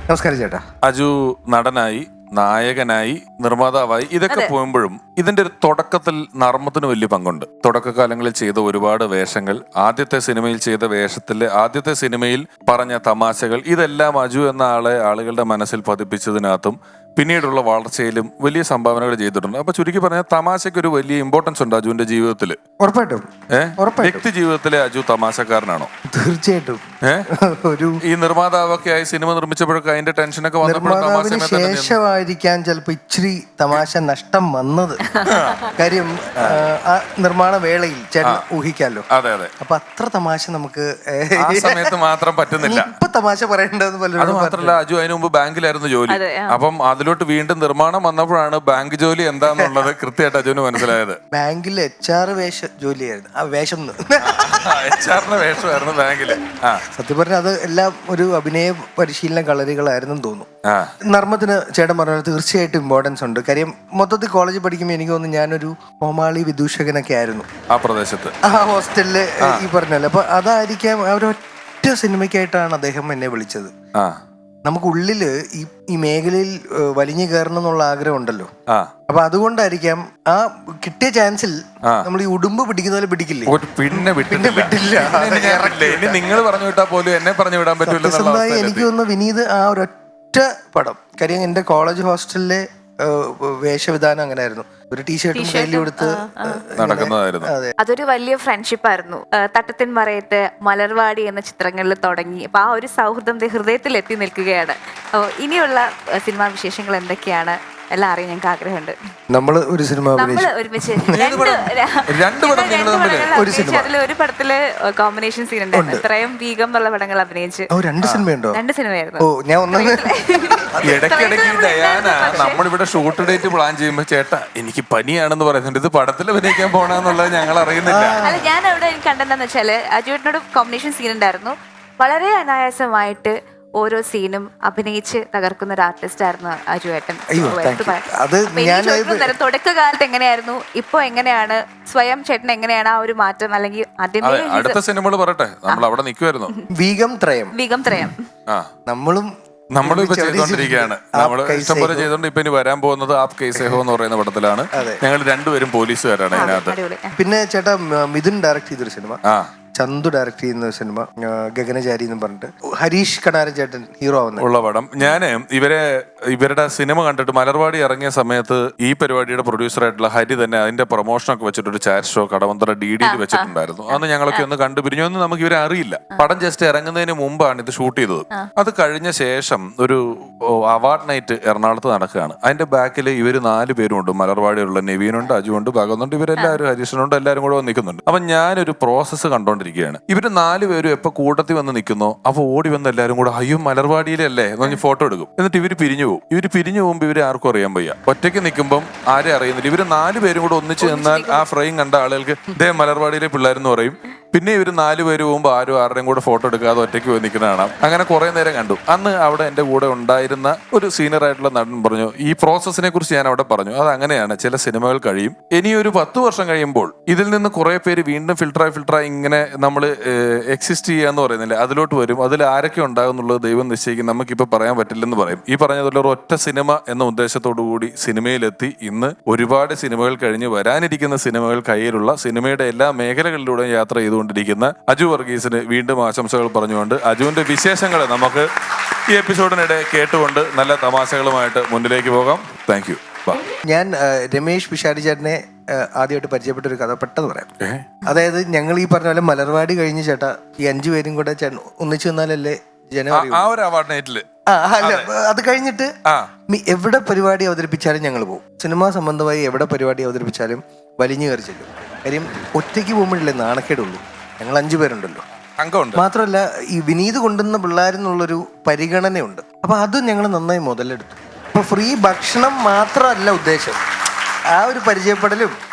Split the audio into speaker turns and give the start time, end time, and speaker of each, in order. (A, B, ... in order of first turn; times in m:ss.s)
0:00.1-0:00.6 A
0:00.8-0:22.6 B
0:22.8-0:24.2 A
0:23.5-0:25.9 B
0:26.1-0:26.8 A
0:27.4-0:28.0 A
0:28.0-0:32.0 B
0:30.6-0:35.0 A
0:35.1-0:35.7 C
0:35.2-0:35.7 B
0:35.7-0:39.0 A
0:36.4-0:36.6 B
0:39.1-0:39.5 B
0:39.6-0:41.9 A
0:41.4-0:42.9 B
0:42.6-0:44.8 A
0:44.2-0:51.2 B
0:46.1-0:46.6 C
0:49.5-0:49.8 A
0:51.3-0:55.0 A
0:54.3-0:56.8 B
0:56.9-1:00.5 A
1:00.6-1:00.9 B
1:01.1-1:07.4 A
1:07.7-1:08.3 B
1:08.4-1:13.7 A
1:14.6-1:18.5 A
1:19.1-1:26.4 A
1:23.5-1:28.9 B
1:27.8-1:37.8 A
1:35.3-1:36.6 C
1:36.8-1:37.5 B
1:37.8-1:48.9 C
1:49.3-1:51.1 A
1:50.2-1:57.7 C
1:51.1-1:53.3 B
1:53.3-1:53.9 A
1:55.7-1:56.0 A
1:57.7-1:58.6 A
1:58.5-2:02.6 C
1:59.2-2:01.0 A
2:00.8-2:08.2 B
2:07.8-2:08.5 A
2:08.2-2:24.8 C
2:17.3-2:19.3 A
2:24.2-2:26.5 B
2:26.8-2:27.5 A
2:27.5-2:28.2 C
2:28.9-2:29.3 A
2:29.7-2:36.7 B
2:29.8-2:32.1 A
2:33.6-2:33.8 A
2:34.7-2:35.0 A
2:36.3-2:37.1 C
2:37.2-2:39.2 A
2:39.8-2:44.4 A
2:44.4-3:00.0 B
2:53.0-2:54.4 C
3:00.7-3:58.5 B
3:20.8-3:21.4 C
3:59.1-4:03.4 B
4:03.7-4:07.5 A
4:07.6-4:08.0 B
4:08.0-4:13.5 A
4:13.1-4:14.2 B
4:14.5-4:15.9 A
4:14.8-4:15.1 B
4:16.5-4:25.2 A
4:25.6-4:26.0 B
4:26.0-4:33.8 A
4:34.5-4:35.5 A